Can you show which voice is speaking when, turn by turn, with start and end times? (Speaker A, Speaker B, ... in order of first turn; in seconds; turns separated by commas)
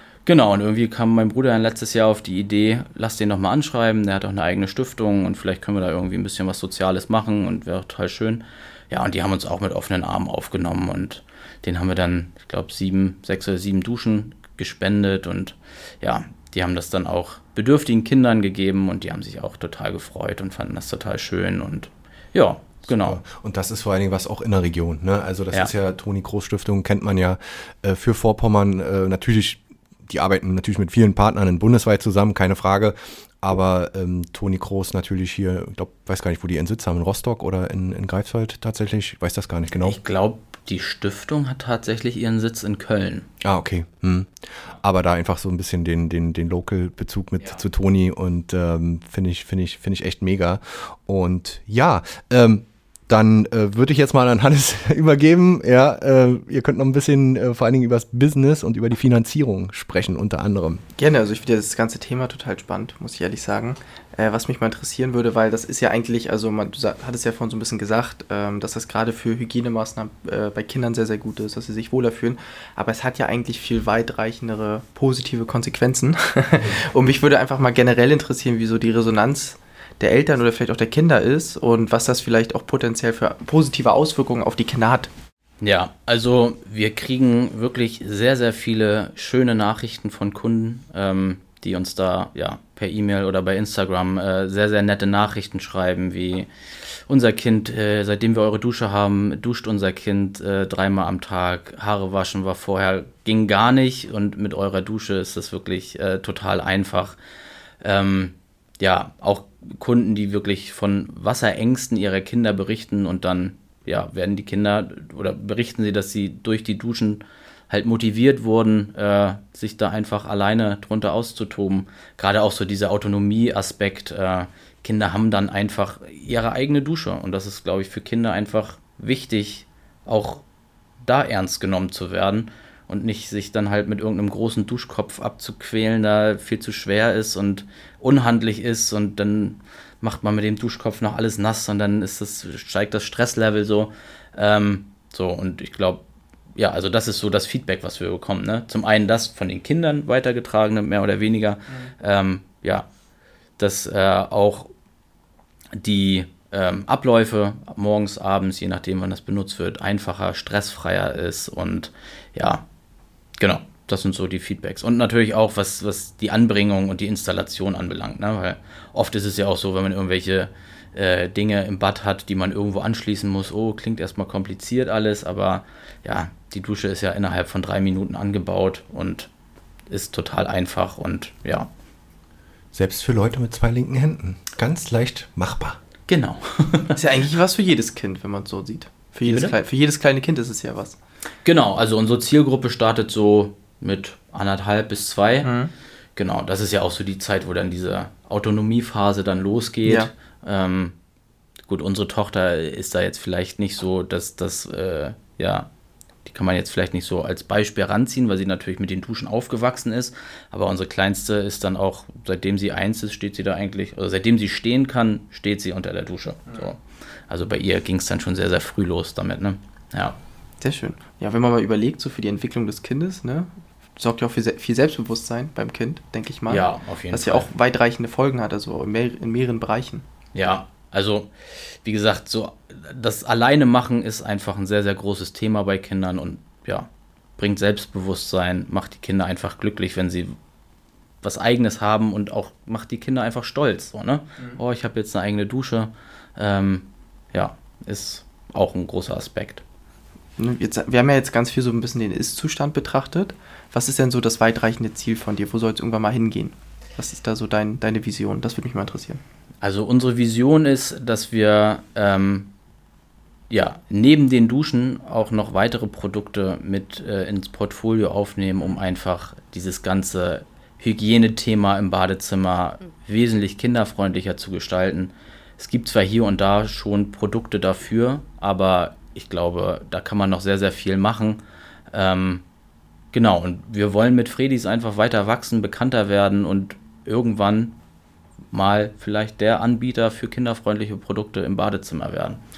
Speaker A: 0.3-23.2, Speaker B: 23.0-40.0, Speaker A: 39.8-43.3, Speaker B: 43.4-60.8, Speaker C: 61.0-85.1, Speaker A: 85.6-96.5, Speaker A: 97.1-107.2, Speaker A: 107.8-130.4, Speaker A: 131.0-146.0, Speaker A: 146.6-152.9, Speaker A: 153.6-154.7, Speaker A: 155.8-162.7, Speaker A: 163.4-179.3, Speaker A: 179.9-181.7, Speaker B: 182.7-185.8, Speaker A: 186.1-187.0, Speaker C: 186.9-191.0, Speaker A: 189.3-189.6, Speaker A: 191.4-195.5, Speaker C: 195.4-195.7, Speaker A: 196.2-200.9, Speaker C: 199.8-200.1, Speaker A: 201.7-205.7, Speaker A: 206.3-220.2, Speaker C: 220.6-230.1, Speaker A: 226.5-227.5, Speaker A: 230.3-231.3, Speaker A: 231.8-240.3, Speaker A: 241.2-249.6, Speaker C: 250.4-259.2, Speaker A: 259.6-262.5, Speaker A: 263.5-281.4, Speaker A: 281.9-282.4, Speaker A: 283.1-287.8, Speaker A: 288.5-292.4